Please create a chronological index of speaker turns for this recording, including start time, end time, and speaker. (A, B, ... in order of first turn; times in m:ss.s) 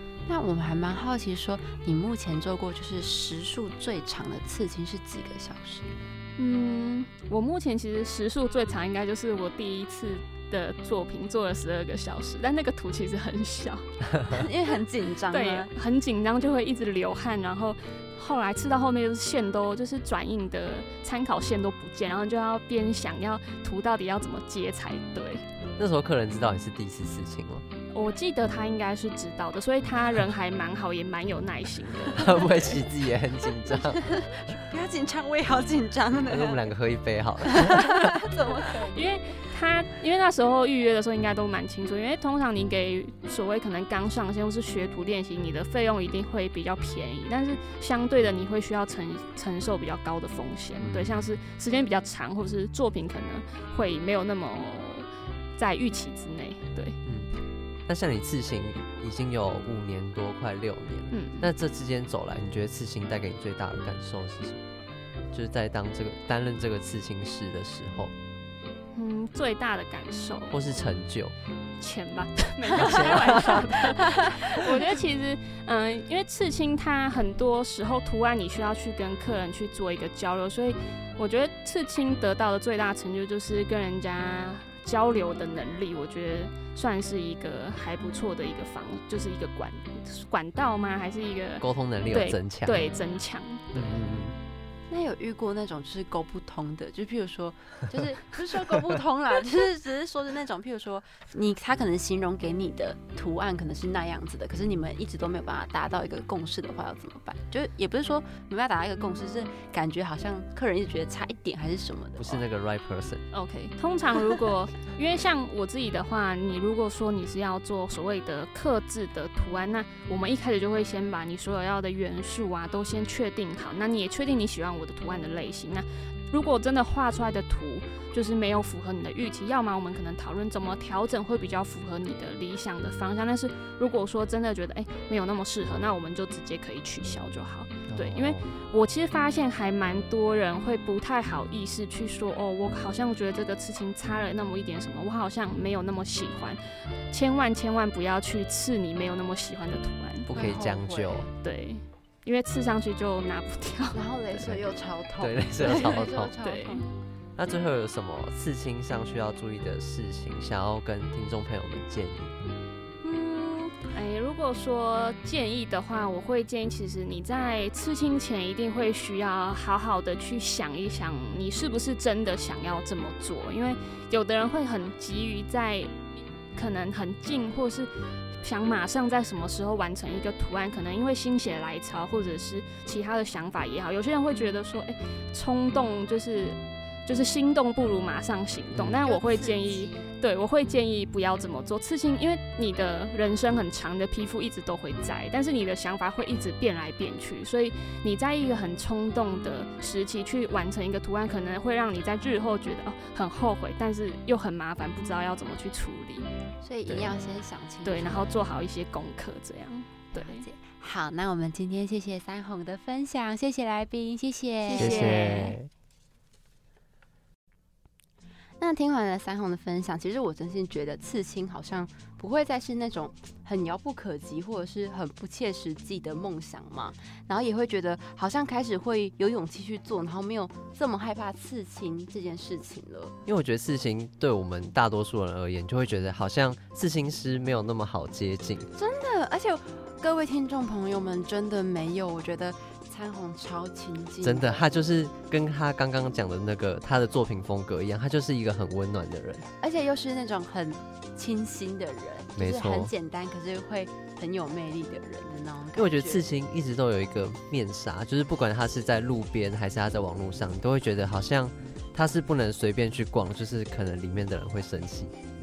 0:00.3-0:05.9 A
0:06.4-0:13.8 B
0:14.3-0:15.7 A
0:15.3-0:25.4 B
0:25.8-0:27.6 C
0:27.9-0:32.8 B
0:32.1-0:34.0 C
0:33.6-0:36.6 A
0:36.3-0:38.1 C
0:37.4-0:39.0 A
0:38.9-0:57.0 B
0:50.8-0:51.3 C
0:57.0-1:04.6 C
1:01.1-1:01.5 B
1:05.3-1:08.1 C
1:08.9-1:10.8 B
1:10.5-1:11.3 C
1:11.8-1:33.9 B
1:12.7-1:13.6 C
1:12.8-1:13.5 A
1:14.1-1:14.7 A
1:31.6-1:32.8 C
1:33.7-1:34.4 C
1:34.9-1:52.4 A
1:52.2-1:53.2 C
1:53.3-2:30.3 B
2:17.9-2:18.5 C
2:30.3-2:31.3 C
2:30.3-2:31.3 A
2:31.4-2:34.0 B
2:33.9-2:36.9 A
2:34.4-2:34.6 C
2:35.2-2:36.3 C
2:36.4-2:36.9 B
2:37.4-2:42.3 C
2:43.0-2:55.9 B
2:56.5-2:57.9 B
2:58.4-3:26.3 B
3:08.7-3:09.0 C
3:09.0-3:10.0 A
3:26.6-3:28.3 A
3:27.8-3:30.4 B
3:30.1-3:35.6 A
3:34.6-3:35.6 B
3:34.8-3:35.7 C
3:38.6-3:53.1 A
3:53.2-3:58.7 C
3:58.7-4:04.7 A
4:04.2-4:09.5 C
4:09.6-4:16.2 A
4:12.4-4:12.9 C
4:15.8-4:25.1 C